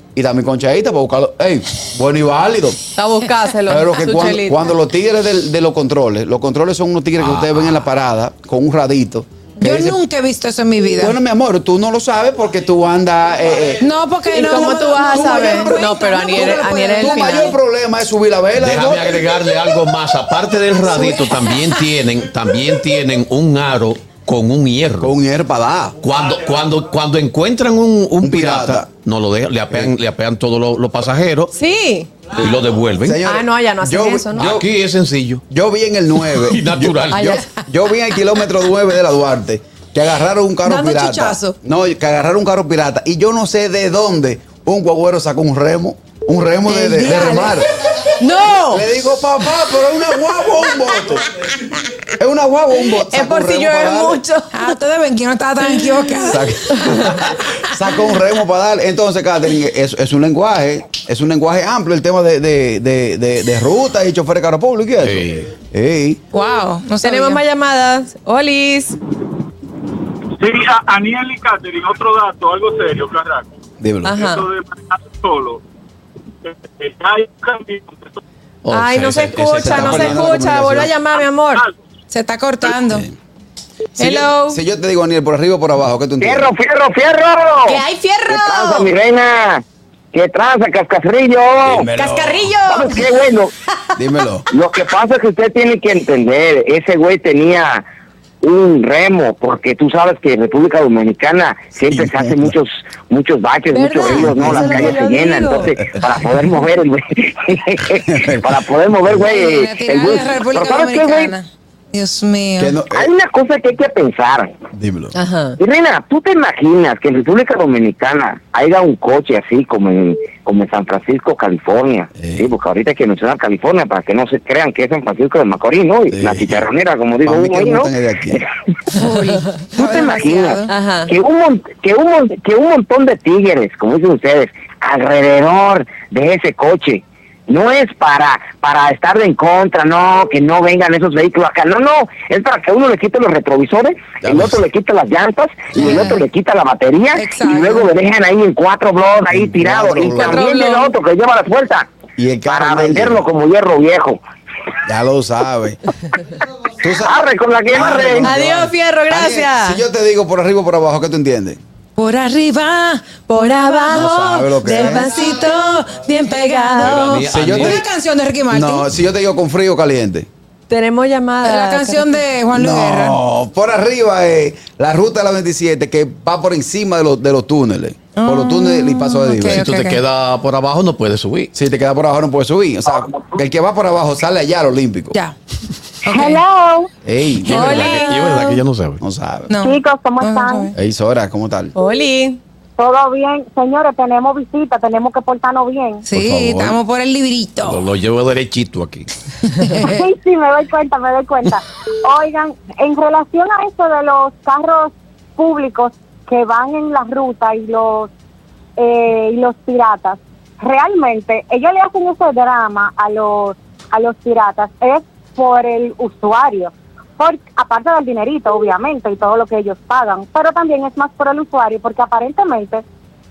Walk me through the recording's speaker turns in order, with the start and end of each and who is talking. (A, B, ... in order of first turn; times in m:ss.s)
0:00.1-0:02.8 A
0:02.9-0:04.7 B
0:03.6-0:10.0 A
0:09.6-0:11.1 C
0:11.0-0:19.2 A
0:13.8-0:17.1 C
0:14.3-0:17.6 B
0:18.6-0:25.1 D
0:20.9-0:21.2 C
0:25.0-0:26.0 A
0:26.0-0:31.5 D
0:28.2-0:28.9 A
0:31.5-0:32.1 B
0:32.3-0:33.2 D
0:32.4-0:34.7 A
0:33.2-0:34.6 B
0:34.4-0:35.4 D
0:35.5-0:47.7 A
0:36.2-0:37.4 D
0:40.6-0:41.5 C
0:46.7-0:47.6 C
0:48.2-0:48.9 B
0:48.7-0:51.4 A
0:52.2-0:54.2 A
0:52.8-0:54.8 B
0:54.5-0:56.5 C
0:56.2-1:06.2 A
1:05.0-1:05.4 D
1:06.3-1:07.4 C
1:07.0-1:09.0 B
1:10.4-1:13.4 E
1:13.8-1:14.2 A
1:14.0-1:14.5 B
1:14.2-1:15.6 E
1:16.4-1:18.0 E
1:18.6-1:20.2 D
1:18.7-1:21.6 B
1:19.6-1:20.9 A
1:22.1-1:23.1 C
1:22.8-1:23.1 A
1:24.0-1:24.6 B
1:24.0-1:26.5 A
1:26.2-1:31.9 F
1:27.7-1:28.9 B
1:31.6-1:32.5 A
1:31.9-1:33.2 B
1:32.6-1:33.5 F
1:34.0-1:34.5 A
1:34.5-1:37.8 F
1:38.4-1:51.4 F
1:41.9-1:42.6 A
1:43.7-1:45.8 C
1:44.1-1:44.7 A
1:48.1-1:48.4 A
1:49.3-1:52.8 C
1:52.6-1:53.1 A
1:52.9-1:54.6 F
1:54.7-1:55.1 A
1:55.1-1:55.6 B
1:55.6-2:08.5 F
2:02.2-2:02.5 A
2:06.1-2:06.7 A
2:07.2-2:08.4 A
2:08.9-2:10.8 C
2:09.7-2:31.8 F
2:10.7-2:11.1 B
2:24.2-2:24.6 A
2:25.7-2:26.0 A
2:25.8-2:26.1 C
2:27.1-2:27.9 C
2:29.3-2:30.4 A
2:30.1-2:30.9 B
2:32.2-2:33.3 A
2:32.5-2:34.2 F
2:34.9-2:35.8 A
2:36.8-2:37.2 A
2:37.0-2:38.3 F
2:37.7-2:41.6 A
2:38.2-2:39.8 B
2:42.0-2:44.0 C
2:43.2-2:46.8 B
2:43.9-2:45.2 A
2:44.7-2:48.8 C
2:46.8-2:47.8 D
2:47.3-2:47.8 A
2:48.5-2:50.3 A
2:50.7-2:52.2 B
2:51.5-2:53.2 C
2:52.5-2:59.6 A
2:58.2-3:00.0 C
2:59.4-3:01.5 D
3:01.5-3:05.2 A
3:06.0-3:06.9 G
3:06.1-3:06.4 C
3:07.0-3:08.1 A
3:07.4-3:09.0 D
3:07.5-3:08.5 B
3:09.0-3:09.5 A
3:09.5-3:10.7 C
3:09.6-3:10.7 G
3:10.7-3:11.7 A
3:11.7-3:12.4 B
3:12.8-3:16.0 G
3:16.0-3:17.8 C
3:16.1-3:16.8 A
3:17.6-3:19.1 D
3:19.6-3:20.0 C
3:19.8-3:28.1 G
3:28.8-3:42.8 G